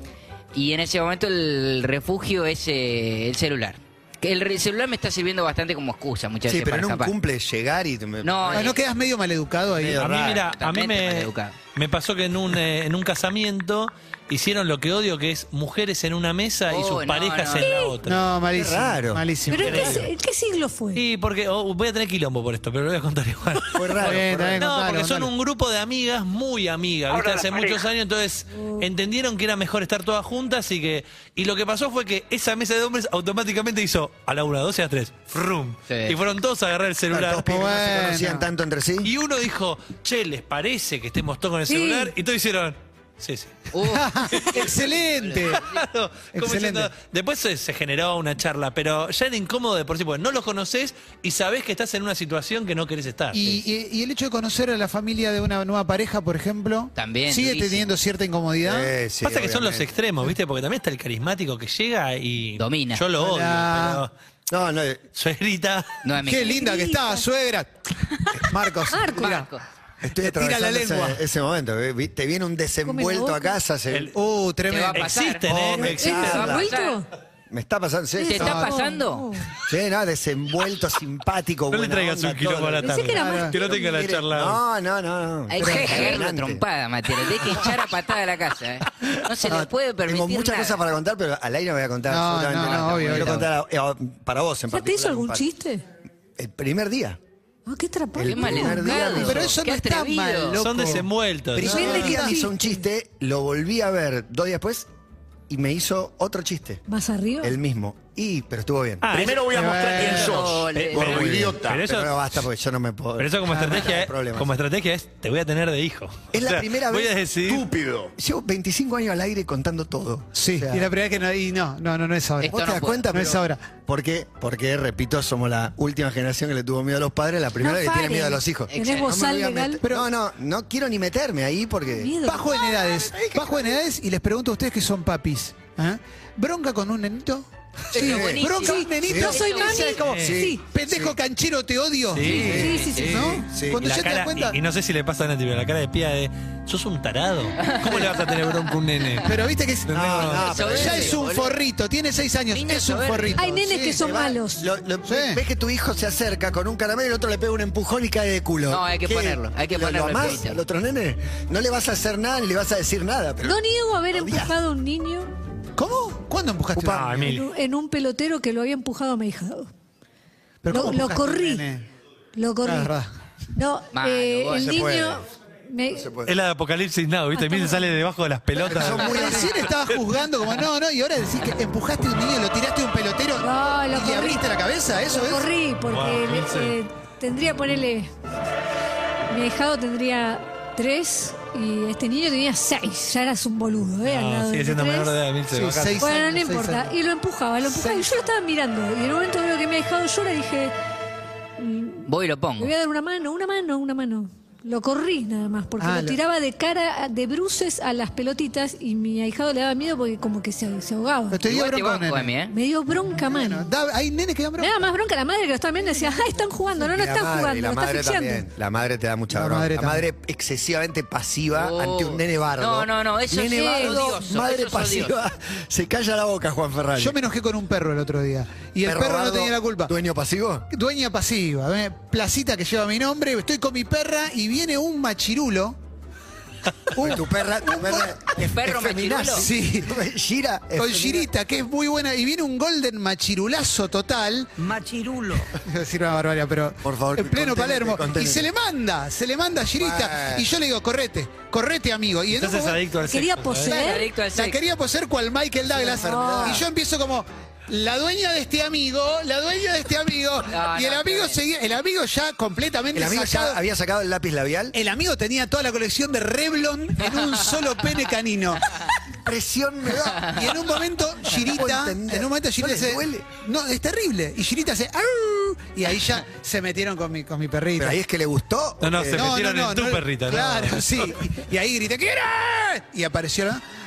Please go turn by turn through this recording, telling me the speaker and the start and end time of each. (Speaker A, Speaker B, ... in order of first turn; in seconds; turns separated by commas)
Speaker A: 0.5-7.1, Speaker B: 6.5-8.8, Speaker A: 8.2-8.8, Speaker C: 8.5-10.0, Speaker B: 9.7-10.5, Speaker D: 9.9-18.3, Speaker A: 10.2-11.6, Speaker A: 16.7-17.7, Speaker E: 17.6-17.9, Speaker C: 18.0-20.0, Speaker B: 18.5-19.9, Speaker E: 19.5-21.0, Speaker D: 19.6-20.1, Speaker D: 20.9-37.5, Speaker B: 23.7-24.6, Speaker C: 24.0-25.3, Speaker F: 27.1-27.8, Speaker A: 35.9-36.1, Speaker B: 37.1-39.1, Speaker C: 37.4-38.4, Speaker D: 39.0-43.7, Speaker E: 41.7-42.1, Speaker A: 43.7-45.8, Speaker C: 43.8-45.6, Speaker D: 44.3-44.7, Speaker D: 45.6-53.4, Speaker C: 46.3-46.9, Speaker C: 53.3-58.9, Speaker A: 56.9-57.9, Speaker B: 58.6-59.9, Speaker D: 59.2-64.1, Speaker A: 62.6-63.0, Speaker C: 63.2-64.0, Speaker B: 64.5-65.0, Speaker D: 65.1-65.9, Speaker A: 66.0-66.6, Speaker C: 66.2-67.7, Speaker E: 66.4-67.2, Speaker C: 68.3-69.5, Speaker E: 68.9-69.4, Speaker A: 69.1-69.6, Speaker B: 70.0-74.1, Speaker C: 70.2-71.2, Speaker E: 72.8-73.6, Speaker C: 74.1-75.2, Speaker A: 74.7-77.0, Speaker D: 74.9-76.2, Speaker B: 75.5-76.7, Speaker E: 75.8-77.1, Speaker B: 77.5-78.6, Speaker E: 78.2-79.5, Speaker A: 78.2-79.2, Speaker C: 78.4-78.7, Speaker B: 79.7-86.6, Speaker D: 81.7-84.6, Speaker E: 82.8-84.0, Speaker C: 83.1-83.5, Speaker A: 85.5-90.8, Speaker C: 85.6-86.1, Speaker B: 89.4-95.4, Speaker C: 92.1-93.5, Speaker A: 92.6-93.4, Speaker E: 94.7-95.8, Speaker B: 96.4-97.2, Speaker E: 97.7-99.4, Speaker B: 98.2-99.5, Speaker A: 98.2-100.7, Speaker C: 98.9-101.1, Speaker D: 100.6-102.0, Speaker B: 101.5-104.9, Speaker E: 101.6-102.8, Speaker C: 101.7-102.3, Speaker B: 105.5-106.8, Speaker E: 106.9-107.5, Speaker B: 107.4-109.1, Speaker D: 109.0-112.2, Speaker F: 109.1-111.8, Speaker C: 109.5-110.4, Speaker A: 110.0-111.2, Speaker B: 110.9-114.5, Speaker D: 113.2-117.7, Speaker C: 113.5-113.8, Speaker B: 116.3-117.2, Speaker F: 117.4-118.1, Speaker B: 118.2-120.9, Speaker C: 120.3-122.6, Speaker A: 122.4-123.1, Speaker B: 122.4-132.2, Speaker C: 123.1-123.6, Speaker E: 127.6-129.8, Speaker A: 128.7-129.2, Speaker E: 131.9-133.1, Speaker C: 132.2-144.6, Speaker B: 133.1-133.8, Speaker A: 137.9-140.0, Speaker B: 137.9-138.5, Speaker E: 138.6-140.6, Speaker B: 139.1-139.3, Speaker D: 140.0-140.4, Speaker B: 140.1-141.2, Speaker D: 142.1-142.7, Speaker E: 142.2-143.4, Speaker A: 142.3-143.4, Speaker B: 142.3-142.7, Speaker B: 143.5-143.8, Speaker D: 143.8-150.5, Speaker A: 147.6-148.3, Speaker C: 149.2-154.0, Speaker B: 149.9-151.2, Speaker A: 150.4-151.6, Speaker A: 152.5-153.4, Speaker E: 153.3-154.6, Speaker B: 153.9-164.6, Speaker C: 155.0-155.4, Speaker A: 158.7-160.6, Speaker E: 163.4-165.3, Speaker C: 165.8-167.4, Speaker D: 166.7-167.5, Speaker E: 167.2-169.7, Speaker C: 170.6-171.8, Speaker E: 170.7-171.7, Speaker E: 172.3-172.9, Speaker C: 172.6-173.1, Speaker E: 173.5-176.1, Speaker A: 173.9-174.6, Speaker B: 174.5-175.2, Speaker B: 175.9-176.3, Speaker D: 176.2-180.0, Speaker E: 177.3-177.9, Speaker B: 178.6-179.7, Speaker C: 178.7-185.5, Speaker E: 183.4-184.4, Speaker E: 185.0-188.1, Speaker D: 185.8-186.8, Speaker E: 189.3-195.2, Speaker D: 194.0-196.1, Speaker C: 195.5-196.9, Speaker E: 196.0-200.7, Speaker C: 197.6-198.1, Speaker E: 201.6-211.4, Speaker A: 202.1-202.7, Speaker C: 205.8-206.2, Speaker C: 211.3-212.3, Speaker A: 211.4-212.5, Speaker E: 212.5-213.7, Speaker C: 213.2-214.8, Speaker E: 214.6-218.5, Speaker B: 216.9-227.2, Speaker C: 219.3-220.0, Speaker A: 221.5-225.1, Speaker E: 223.5-224.0, Speaker C: 227.0-229.9, Speaker B: 228.8-230.7, Speaker C: 230.7-235.8, Speaker C: 236.9-238.1, Speaker B: 236.9-241.3, Speaker A: 238.2-239.5, Speaker C: 239.3-240.0, Speaker C: 240.8-244.6, Speaker D: 244.7-245.3, Speaker C: 245.6-252.9, Speaker B: 246.8-248.5, Speaker B: 249.8-250.5, Speaker D: 252.3-253.8, Speaker E: 253.0-254.1, Speaker A: 253.7-254.6, Speaker C: 253.9-263.6, Speaker B: 255.7-256.7, Speaker E: 255.9-256.6, Speaker A: 260.5-261.4, Speaker B: 262.9-264.8, Speaker C: 264.7-268.8, Speaker B: 269.1-270.5, Speaker C: 270.3-278.0, Speaker B: 271.3-273.3, Speaker B: 277.8-279.4, Speaker D: 278.8-281.1, Speaker C: 279.1-283.6